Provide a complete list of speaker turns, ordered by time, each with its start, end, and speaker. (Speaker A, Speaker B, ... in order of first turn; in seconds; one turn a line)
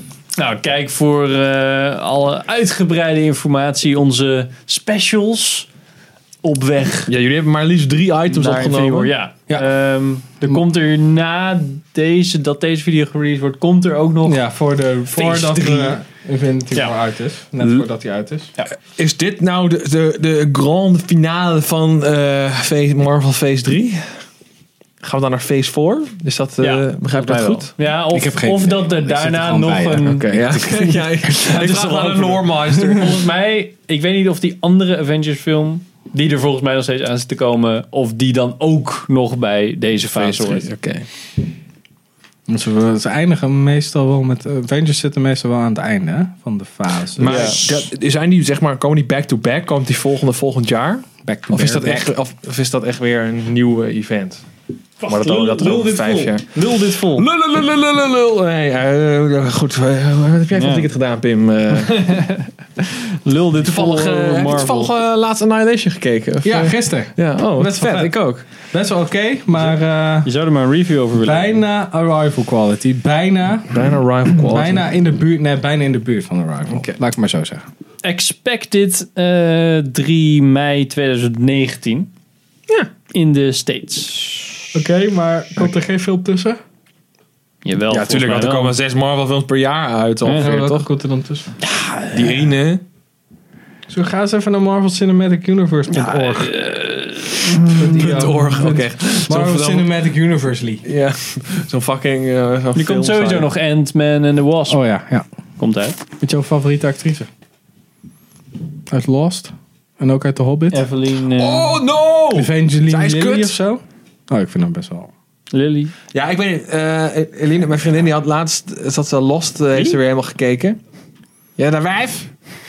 Speaker A: 0.4-5.7
Speaker A: 6.4-7.1
Speaker B: 7.1-9.1
Speaker A: 8.3-14.4
Speaker C: 14.2-18.5
Speaker B: 15.2-15.9
Speaker B: 19.0-24.2
Speaker B: 25.0-27.7
Speaker A: 26.6-30.4
Speaker C: 28.1-31.1
Speaker B: 30.0-33.3
Speaker A: 31.2-40.7
Speaker B: 40.0-41.1
Speaker C: 42.5-47.6
Speaker B: 47.2-54.5
Speaker A: 47.2-47.9
Speaker C: 51.2-52.1
Speaker A: 55.0-57.2
Speaker B: 55.1-62.1
Speaker A: 60.5-60.9
Speaker A: 61.8-64.9
Speaker B: 63.6-68.5
Speaker C: 66.4-70.3
Speaker A: 70.2-71.6
Speaker C: 71.2-73.8
Speaker B: 73.7-74.9
Speaker C: 74.5-77.6
Speaker B: 76.7-76.9
Speaker A: 78.0-82.1
Speaker A: 83.1-84.8
Speaker C: 84.7-86.6
Speaker A: 87.6-88.8
Speaker B: 87.9-90.9
Speaker C: 90.4-91.5
Speaker A: 91.6-92.5
Speaker B: 92.1-92.8
Speaker C: 93.9-96.5
Speaker B: 96.0-96.3
Speaker A: 96.1-98.3
Speaker C: 97.8-100.8
Speaker B: 97.9-99.9
Speaker B: 100.8-103.5
Speaker A: 102.8-104.8
Speaker C: 104.7-105.2
Speaker A: 105.6-106.0
Speaker C: 106.2-107.3
Speaker C: 108.9-110.8
Speaker A: 110.7-111.8
Speaker B: 111.3-113.5
Speaker C: 112.3-115.1
Speaker A: 115.5-115.9
Speaker B: 116.1-120.8
Speaker B: 121.6-122.3